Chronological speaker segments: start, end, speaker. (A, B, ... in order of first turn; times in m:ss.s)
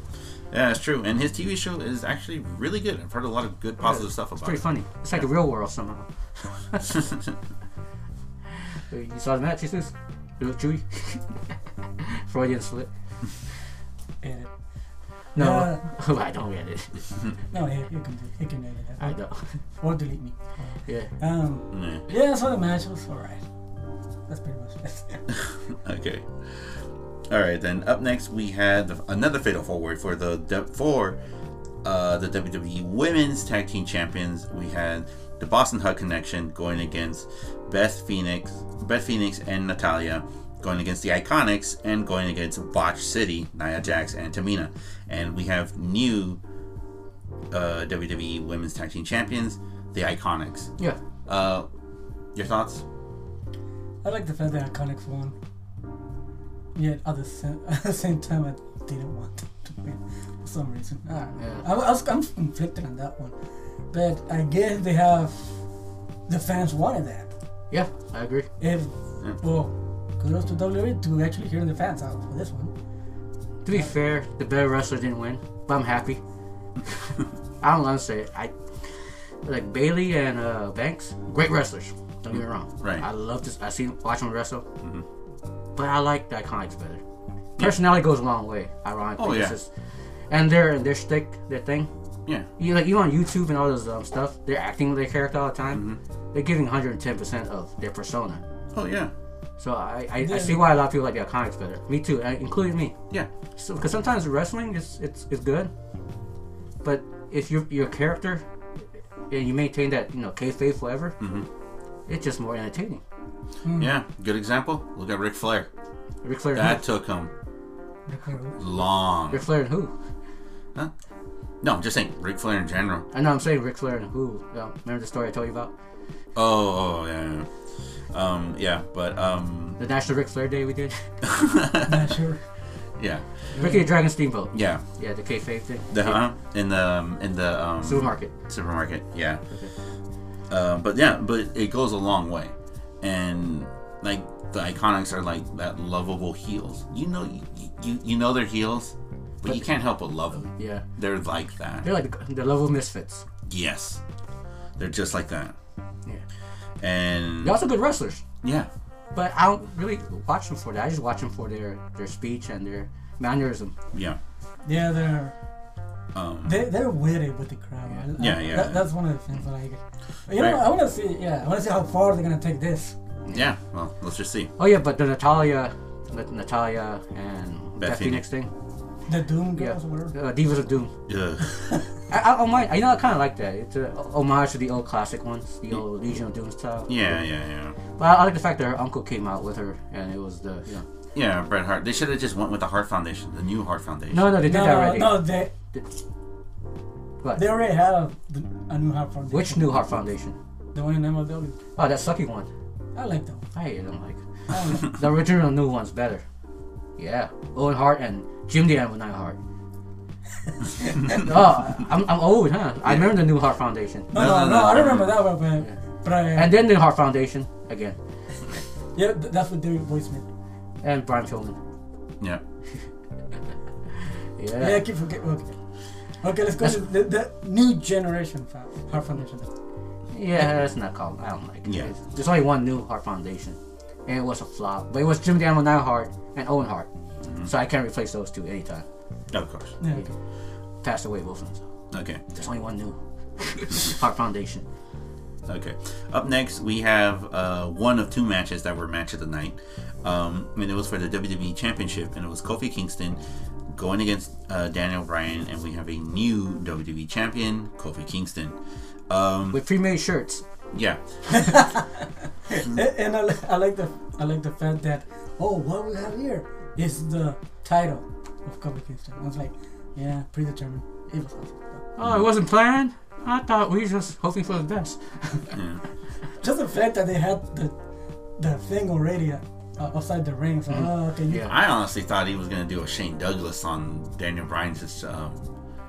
0:00.5-0:05.3 A
0:03.8-0:07.0 B
0:06.8-0:07.3 A
0:08.9-0:11.4 B
0:12.0-0:12.9 B
0:14.2-0:14.5 C
0:15.4-0:17.2 B
0:15.4-0:15.8 C
0:17.5-0:19.2 C
0:19.0-0:19.6 B
0:19.8-0:23.4 C
0:20.9-0:21.1 B
0:21.7-0:22.1 A
0:24.3-0:25.2 C
0:25.3-0:31.2 A
0:31.8-0:46.4 A
0:47.5-0:50.7 A
0:51.2-0:51.7 A
0:52.3-0:52.8 A
0:54.0-0:55.4 C
0:56.7-1:03.3 C
1:01.4-1:01.6 B
1:03.9-1:05.6 C
1:06.3-1:07.3 C
1:07.7-1:08.5 B
1:08.6-1:12.7 C
1:13.6-1:16.2 B
1:17.6-1:18.5 B
1:19.4-1:24.6 B
1:25.8-1:27.0 B
1:27.6-1:29.7 B
1:29.2-1:29.6 A
1:30.3-1:31.9 B
1:32.6-1:38.4 B
1:35.7-1:36.0 A
1:38.7-1:39.1 A
1:39.6-1:42.9 B
1:40.2-1:40.7 C
1:43.6-1:45.7 B
1:46.8-1:48.4 B
1:49.3-1:51.2 B
1:51.2-1:51.5 A
1:52.1-1:53.0 B
1:53.6-1:53.9 C
1:53.8-1:55.7 A
1:56.2-1:56.8 B
1:56.6-1:57.3 A
1:58.1-1:58.6 C
1:58.6-1:59.4 A
1:59.3-1:59.9 B
2:01.6-2:03.1 A
2:03.1-2:05.7 B
2:06.4-2:07.5 A
2:08.1-2:09.8 A
2:09.8-2:11.1 B
2:11.2-2:12.1 A
2:11.8-2:12.4 C
2:13.0-2:13.3 A
2:13.5-2:16.2 B
2:13.6-2:13.9 C
2:14.5-2:14.8 A
2:15.9-2:19.4 A
2:17.8-2:18.3 B
2:20.5-2:31.9 A
2:30.4-2:30.8 B
2:31.8-2:33.2 B
2:33.4-2:34.0 A
2:34.8-2:35.6 A
2:36.8-2:37.6 A
2:37.4-2:38.2 B
2:38.4-2:38.7 A
2:39.1-2:43.7 B
2:43.9-2:44.2 A
2:44.6-2:45.3 C
2:46.1-2:46.7 A
2:46.4-2:52.9 C
2:47.9-2:48.1 B
2:48.2-2:48.9 A
2:50.3-2:50.6 A
2:53.3-2:54.5 A
2:54.6-2:58.5 B
2:57.8-2:58.2 A
2:59.1-3:00.1 C
2:59.6-3:00.9 B
3:01.1-3:01.8 A
3:02.1-3:07.0 B
3:06.9-3:07.8 A
3:08.0-3:10.8 B
3:11.1-3:14.4 A
3:14.1-3:15.9 B
3:14.4-3:15.5 C
3:17.4-3:20.0 C
3:19.3-3:20.4 B
3:20.7-3:21.6 C
3:21.8-3:22.5 B
3:22.9-3:23.5 C
3:23.5-3:26.2 B
3:24.5-3:25.0 C
3:27.0-3:29.4 B
3:31.1-3:34.1 B
3:32.8-3:33.1 A
3:34.1-3:36.6 C
3:34.1-3:35.2 A
3:36.3-3:38.0 B
3:38.9-3:40.2 C
3:40.8-3:41.6 B
3:44.4-3:44.8 B
3:44.6-3:45.6 C
3:46.2-3:49.5 C
3:50.1-3:56.9 B
3:51.6-3:51.9 A
3:57.2-3:57.5 A
3:57.4-3:58.8 B
3:59.3-3:59.8 A
3:59.8-4:00.1 C
4:00.8-4:01.6 B
4:01.9-4:02.2 A
4:02.3-4:04.6 B
4:05.4-4:18.6 A
4:19.1-4:19.6 A
4:19.5-4:20.4 B
4:20.7-4:21.6 A
4:21.3-4:21.8 C
4:22.5-4:31.8 C
4:31.9-4:35.4 B
4:35.5-4:35.8 A
4:36.4-4:37.7 C
4:38.4-4:41.5 C
4:40.7-4:41.6 B
4:41.4-4:45.4 A